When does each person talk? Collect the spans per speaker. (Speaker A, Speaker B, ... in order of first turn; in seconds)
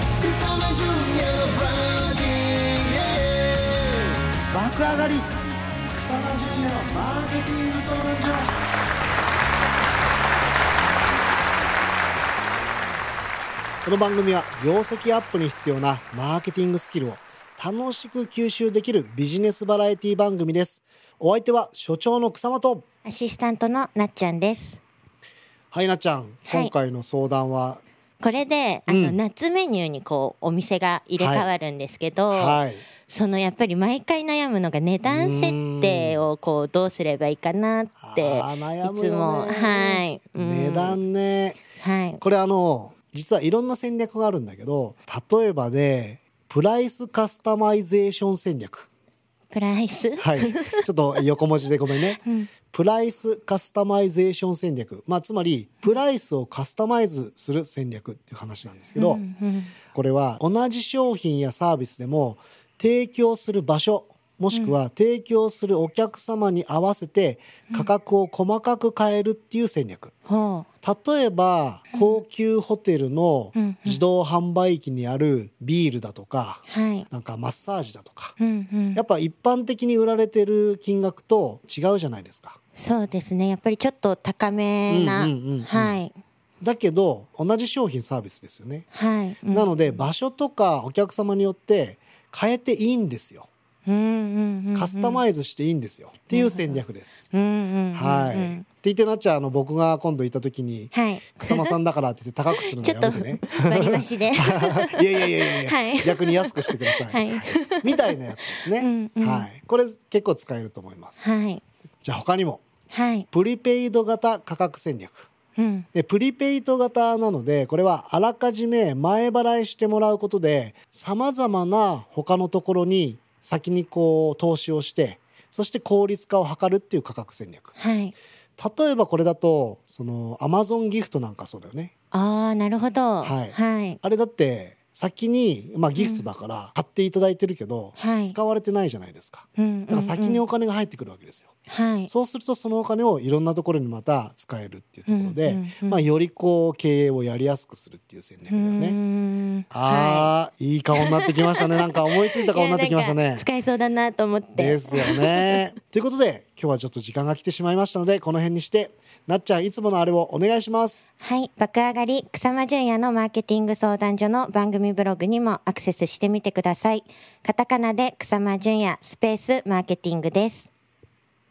Speaker A: 4.5-8.5, 13.8-22.8, 25.7-27.8, 28.9-29.2, 31.2-31.5, 32.3-32.9, 35.1-36.2, 38.0-41.6, 42.2-48.9, 50.2-52.2, 52.7-59.2, 59.9-70.1, 70.8-78.3, 79.0-82.6, 84.9-86.0, 86.6-88.9, 89.5-93.5, 94.8-97.3, 97.9-100.9, 101.4-111.2, 112.0-112.6, 113.3-115.3, 115.9-127.8, 128.6-131.9, 133.2-141.5, 142.1-149.0, 149.7-153.5, 154.6-161.0
Speaker B: 23.1-24.8, 26.5-26.7, 28.2-41.0, 41.8-42.2, 49.5-50.8, 52.2-52.5, 59.0-59.7, 70.3-70.7, 71.9-72.2, 73.6-74.0, 76.7-77.1, 78.4-79.0, 82.8-86.1, 88.9-90.0, 93.9-95.2, 96.3-98.7, 100.9-101.7, 102.6-109.5, 111.2-111.6, 112.9-113.3, 115.6-115.9, 127.8-128.1, 132.1-134.0, 136.0-136.3, 138.0-138.4, 139.6-140.4, 141.7-142.1, 145.1-146.1, 148.5-150.3, 150.9-155.6, 161.2-170.7